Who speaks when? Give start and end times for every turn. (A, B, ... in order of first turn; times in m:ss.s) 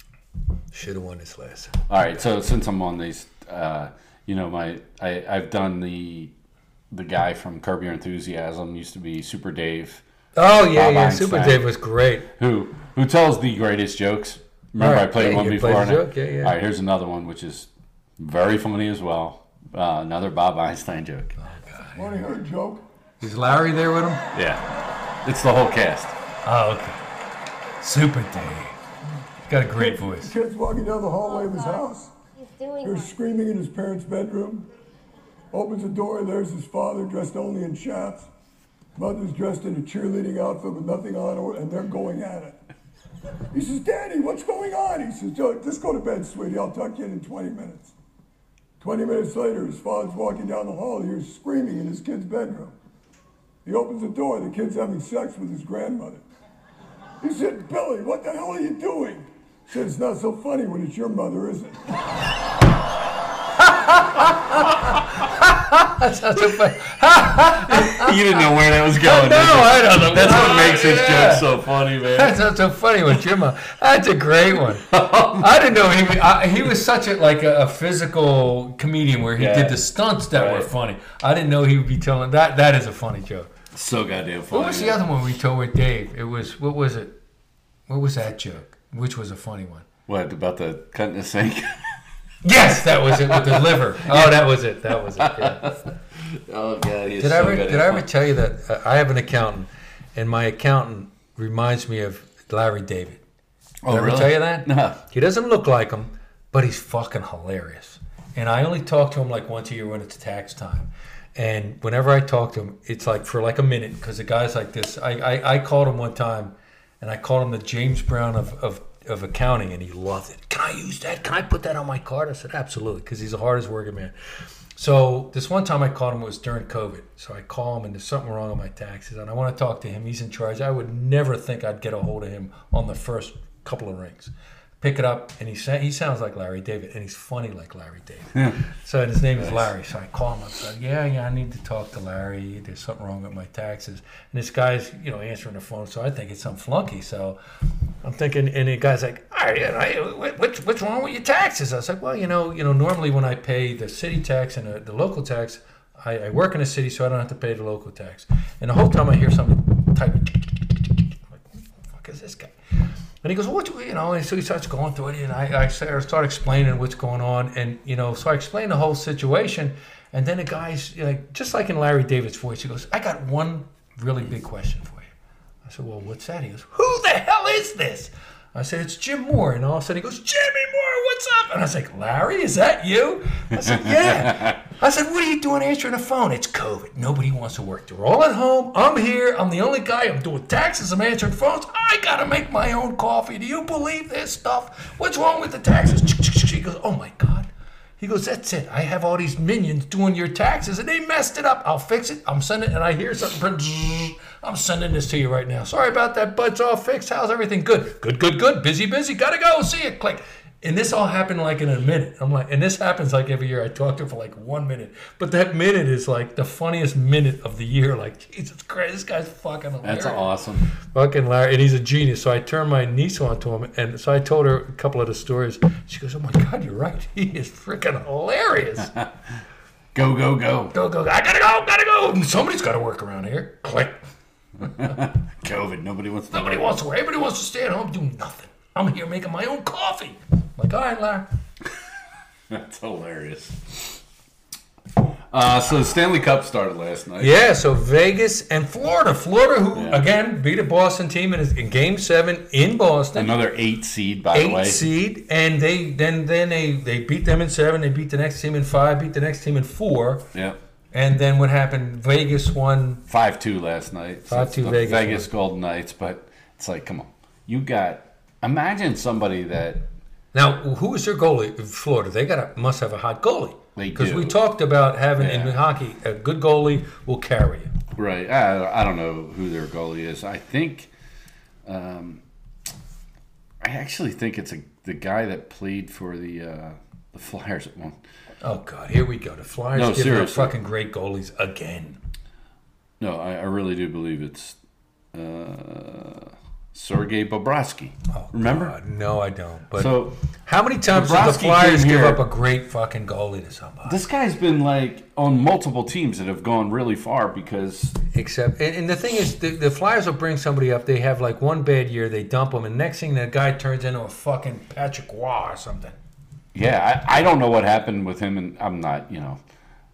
0:00.7-0:01.8 A
0:01.9-0:06.3 B
0:06.9-0:10.0 B
0:10.4-0:12.3 A
0:10.6-0:11.7 B
0:12.4-0:21.4 B
0:14.8-0:16.6 A
0:21.4-0:22.2 A
0:21.9-0:22.8 C
0:23.2-0:24.3 A
0:24.3-0:24.6 B
0:25.2-0:26.1 B
0:26.4-0:27.0 A
0:27.8-0:28.8 A
0:29.5-0:30.3 A
0:29.8-0:34.7 C
0:35.5-0:38.3 C
0:39.0-0:42.6 C
0:43.5-0:47.9 C
0:48.8-0:52.8 C
0:53.6-0:56.2 C
0:57.2-1:01.9 C
1:03.6-1:11.5 A
1:07.5-1:12.4 B
1:12.1-1:23.5 A
1:14.8-1:15.6 B
1:19.4-1:19.8 B
1:20.3-1:20.7 B
1:23.7-1:25.0 B
1:24.5-1:27.2 A
1:27.9-1:29.9 A
1:30.1-1:31.9 B
1:32.4-1:35.7 A
1:33.1-1:34.4 B
1:35.2-1:38.1 B
1:37.2-1:43.2 A
1:43.8-1:45.0 B
1:43.9-2:04.1 A
2:04.8-2:27.4 A
2:28.0-2:42.6 A
2:43.2-2:55.1 A
2:55.6-3:17.5 A
3:04.2-3:04.6 B
3:18.0-3:40.2 A
3:39.8-3:40.7 B
3:40.9-3:48.9 A
3:49.9-3:50.8 B
3:50.7-3:54.0 A
3:54.6-3:56.7 B
3:56.3-4:01.3 A
4:02.5-4:04.0 B
4:05.3-4:07.4 B
4:07.2-4:13.3 A
4:09.7-4:10.0 B
4:13.2-4:14.8 B
4:14.3-4:20.3 A
4:20.9-4:23.0 A
4:23.1-4:29.9 B
4:24.3-4:25.3 A
4:30.3-4:37.7 A
4:33.8-4:34.4 B
4:35.2-4:35.6 B
4:38.0-4:40.9 B
4:41.7-4:42.2 B
4:43.6-4:48.0 B
4:48.4-4:52.0 A
4:49.7-4:50.5 B
4:53.0-4:54.6 B
4:55.1-4:58.8 B
4:58.1-5:04.0 A
4:59.8-5:00.2 B
5:00.9-5:02.2 B
5:03.9-5:08.0 B
5:08.1-5:16.0 A
5:16.5-5:19.4 B